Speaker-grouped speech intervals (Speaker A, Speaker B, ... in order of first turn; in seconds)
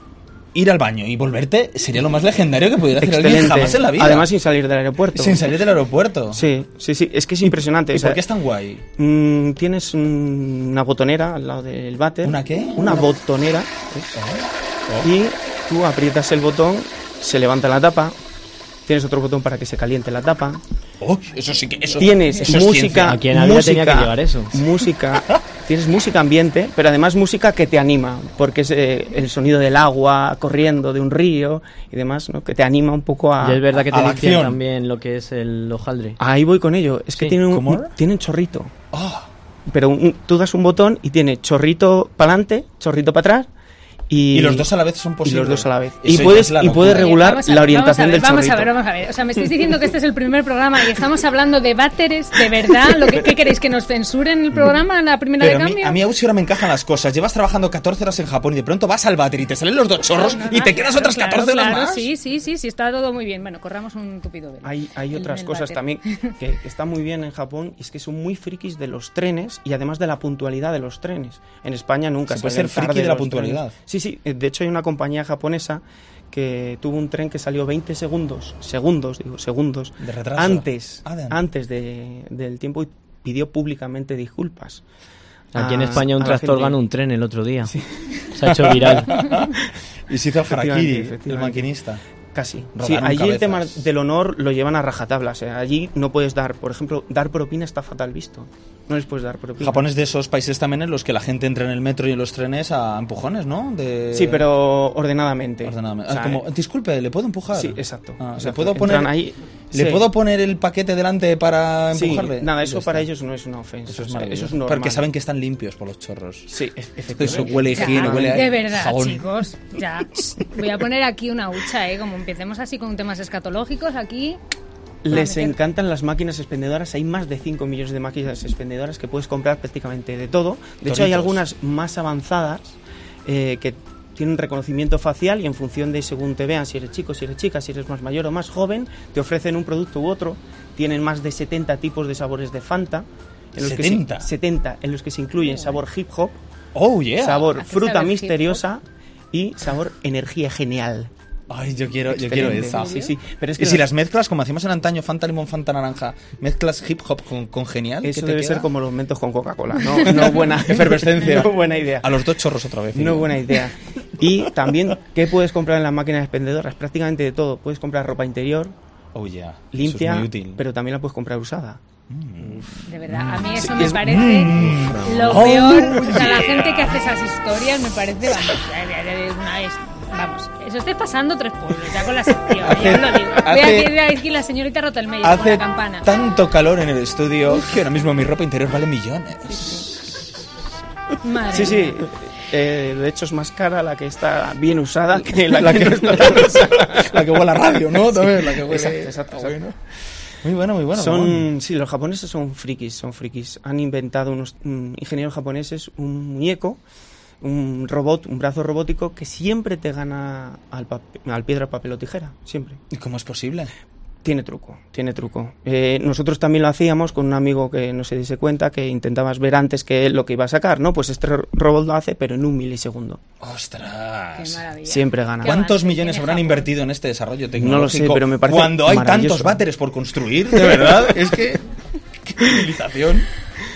Speaker A: 0.5-4.3, 5.1-6.5, 7.9-8.8, 12.2-13.0, 14.2-15.1, 21.0-23.2, 33.9-34.6, 37.3-37.9, 38.9-39.3, 44.3-47.2, 55.4-62.1, 72.3-73.7, 80.0-81.4, 88.7-89.5, 90.1-92.0, 92.8-93.8, 99.6-104.5, 105.6-109.1, 109.7-113.1, 113.9-116.5, 117.1-119.3, 130.8-131.4, 143.6-144.3, 146.8-147.5, 151.5-158.7, 159.9-163.6, 169.1-170.6, 172.1-177.0, 182.6-183.9, 185.2-190.3, 195.5-199.8, 200.4-201.5, 212.9-213.7, 223.4-224.6, 225.4-231.6, 232.2-233.3
Speaker B: 3.0-5.4, 6.3-8.2, 9.0-14.2, 15.0-18.1, 18.9-20.6, 22.0-33.8, 36.2-38.7, 39.7-43.5, 44.1-44.7, 45.2-48.7, 64.6-84.8, 85.5-86.8, 90.5-91.7, 92.3-99.9, 104.1-106.4, 107.5-110.1, 111.9-115.1, 116.5-118.5, 125.0-146.4, 147.2-151.1, 152.1-153.9, 158.0-162.2, 162.9-168.8, 169.7-171.8, 173.5-173.9, 191.5-197.2, 198.2-199.6, 200.9-206.8, 207.4-212.8, 214.2-223.2, 224.8-225.6, 227.6-229.6
Speaker C: 23.0-24.6, 33.4-36.2, 85.5-87.7, 88.4-89.2, 174.7-175.3
Speaker D: 46.8-56.0, 60.1-66.3, 117.8-124.4, 125.1-125.6, 145.4-145.8, 147.5-148.6, 152.7-153.1, 172.9-186.1, 189.5-189.8, 191.2-192.1, 224.3-226.7